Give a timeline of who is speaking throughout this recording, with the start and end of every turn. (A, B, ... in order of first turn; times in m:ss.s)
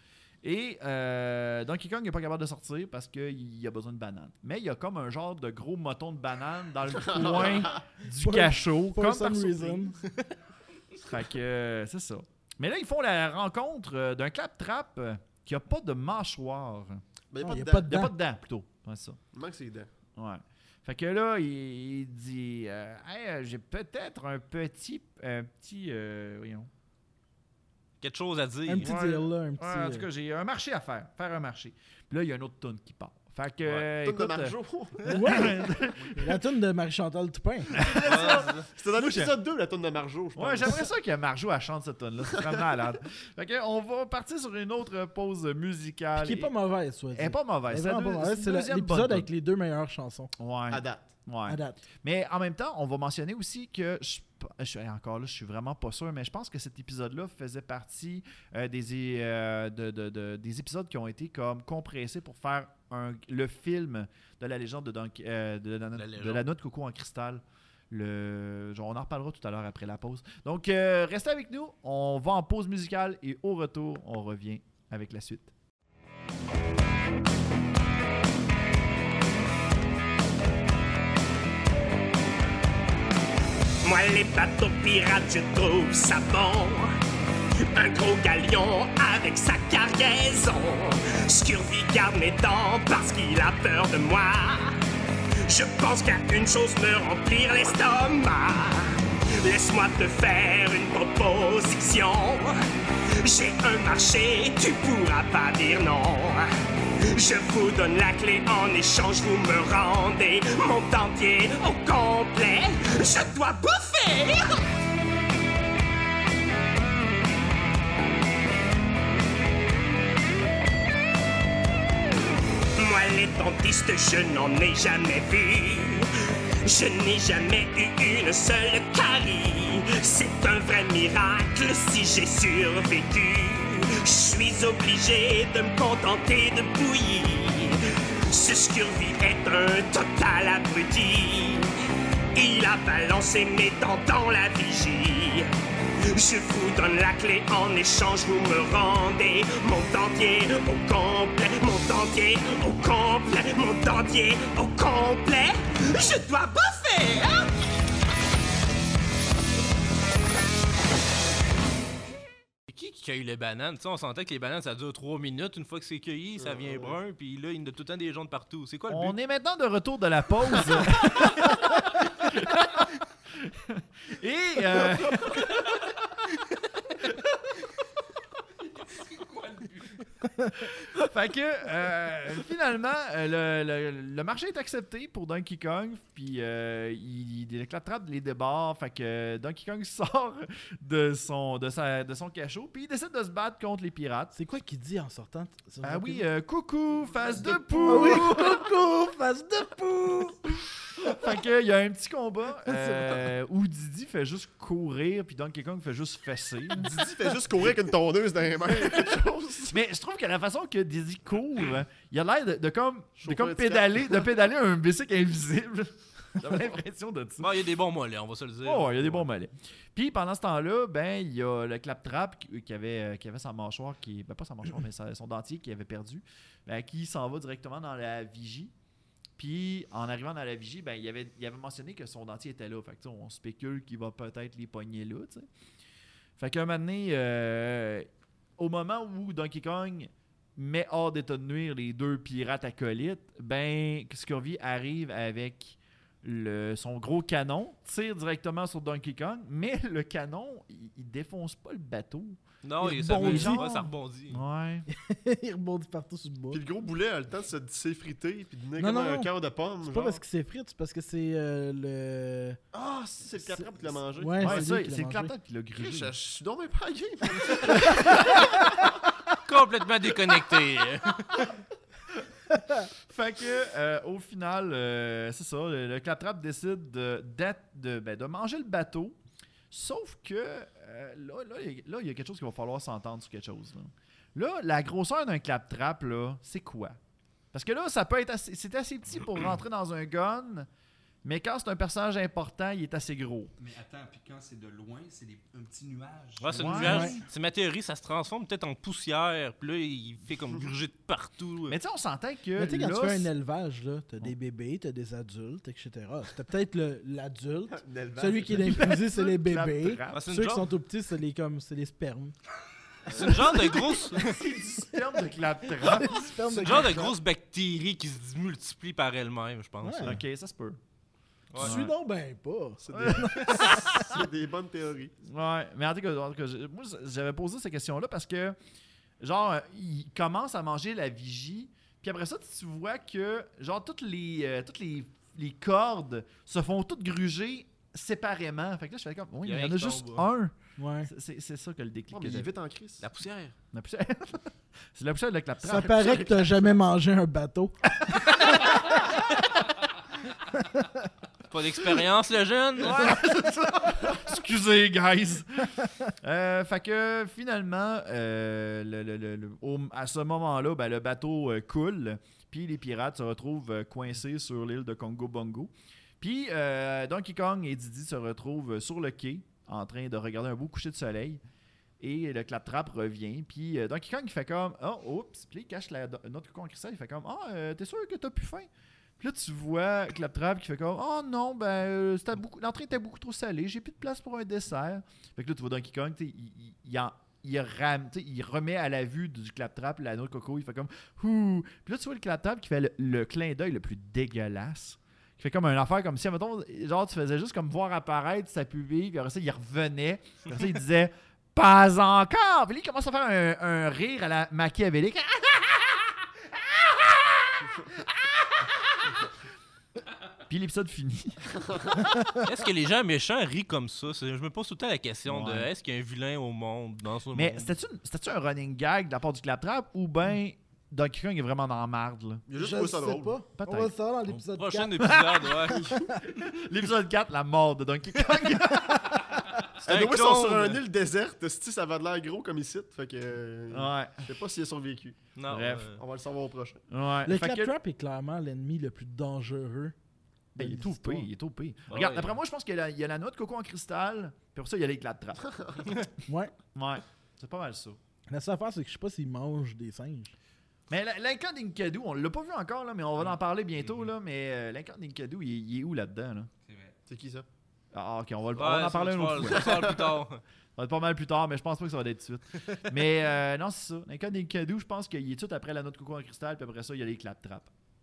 0:00.4-0:10.0 A
0:07.0-0:07.8 B
0:08.0-0:10.0 C
0:11.0-0:17.0 A
0:17.3-0:17.9 B
0:17.4-0:18.1 C
0:17.7-0:19.2 A
0:19.3-0:19.9 B
0:20.2-0:26.7 A
0:28.0-0:28.9 D
0:28.7-0:30.1 C
0:28.8-0:36.4 A
0:34.0-0:35.5 B
0:35.1-0:37.8 C
0:37.7-0:39.4 A
0:38.0-0:40.9 B
0:38.0-0:38.7 D
0:40.4-0:46.5 A
0:42.4-0:42.6 B
0:46.2-0:50.3 C
0:47.1-0:49.3 A
0:50.4-1:15.5 A
0:50.7-0:51.1 B
0:51.5-0:51.8 C
1:06.0-1:06.5 D
1:23.8-1:26.9 E
1:27.7-1:34.8 E
1:35.4-1:42.6 E
1:43.2-1:46.5 E
1:47.1-1:54.6 E
2:02.8-2:06.1 E
2:06.6-2:21.7 E
2:22.3-2:25.5 E
2:26.0-2:37.6 E
2:42.7-2:49.2 D
2:46.4-2:47.0 B
2:48.9-2:55.6 A
2:58.8-3:00.1 F
3:00.6-3:14.4 A
3:14.3-3:16.3 C
3:15.8-3:18.7 A
3:17.8-3:20.4 C
3:20.9-3:27.0 A
3:22.7-3:23.2 C
3:26.8-3:29.8 B
3:28.7-3:37.6 A
3:33.2-3:34.3 B
3:37.4-3:39.3 D
3:38.6-3:48.7 A
3:49.4-3:55.5 A
3:56.4-4:14.9 A
4:12.6-4:14.4 D
4:12.8-4:13.6 C
4:14.9-4:16.6 C
4:16.5-4:20.2 B
4:18.8-4:19.3 C
4:19.8-4:22.6 C
4:22.7-4:24.6 B
4:23.5-4:25.3 C
4:24.4-4:26.2 A
4:25.8-4:28.4 B
4:27.7-4:28.4 A
4:29.4-4:31.5 D
4:33.0-4:39.2 A
4:39.7-4:47.0 A
4:47.5-4:50.7 A
4:51.2-4:53.5 A
4:53.6-4:57.2 F
4:56.4-5:01.8 D
4:56.6-4:57.2 A
4:56.8-4:57.2 C
5:01.7-5:03.3 A
5:02.6-5:12.4 C
5:07.7-5:09.0 B
5:08.6-5:10.3 A
5:10.1-5:10.7 D
5:13.1-5:14.4 D
5:13.2-5:13.7 C
5:14.1-5:17.0 A
5:15.8-5:17.1 C
5:16.5-5:20.2 D
5:19.8-5:20.2 C
5:20.0-5:20.8 A
5:21.5-5:21.8 D
5:21.6-5:21.9 A
5:21.6-5:23.8 C
5:22.8-5:25.1 B
5:22.9-5:24.1 A
5:25.2-5:28.6 A
5:29.2-5:40.5 A
5:39.4-5:40.3 D
5:40.8-5:41.1 C
5:41.0-5:42.5 A
5:42.1-5:43.1 B
5:43.0-5:43.6 D
5:43.7-5:46.8 A
5:45.6-5:47.8 C
5:51.5-5:53.2 D
5:52.8-6:11.4 A
6:12.0-6:18.7 A
6:19.2-6:46.2 A
6:46.8-6:48.7 A
6:50.5-6:52.1 A
6:52.4-6:57.7 D
6:55.3-6:55.7 A
6:57.3-7:02.4 A
7:02.5-7:03.4 B
7:02.6-7:05.2 C
7:03.6-7:03.9 A
7:04.5-7:05.9 D
7:05.0-7:09.4 A
7:05.8-7:06.1 C
7:09.8-7:10.8 D
7:09.8-7:15.2 B
7:13.7-7:14.3 A
7:15.4-7:16.0 D
7:15.5-7:16.0 A
7:16.0-7:16.8 B
7:16.9-7:17.7 A
7:17.3-7:19.9 C
7:20.6-7:21.3 C
7:20.6-7:25.9 A
7:21.9-7:22.3 D
7:26.3-7:26.5 C
7:26.8-7:28.0 A
7:28.3-7:30.3 C
7:30.9-7:36.5 A
7:33.8-7:34.1 F
7:36.6-7:37.0 F
7:37.1-7:37.5 B
7:37.9-7:39.9 A
7:38.6-7:40.4 D
7:39.5-7:40.1 B
7:40.8-7:47.7 A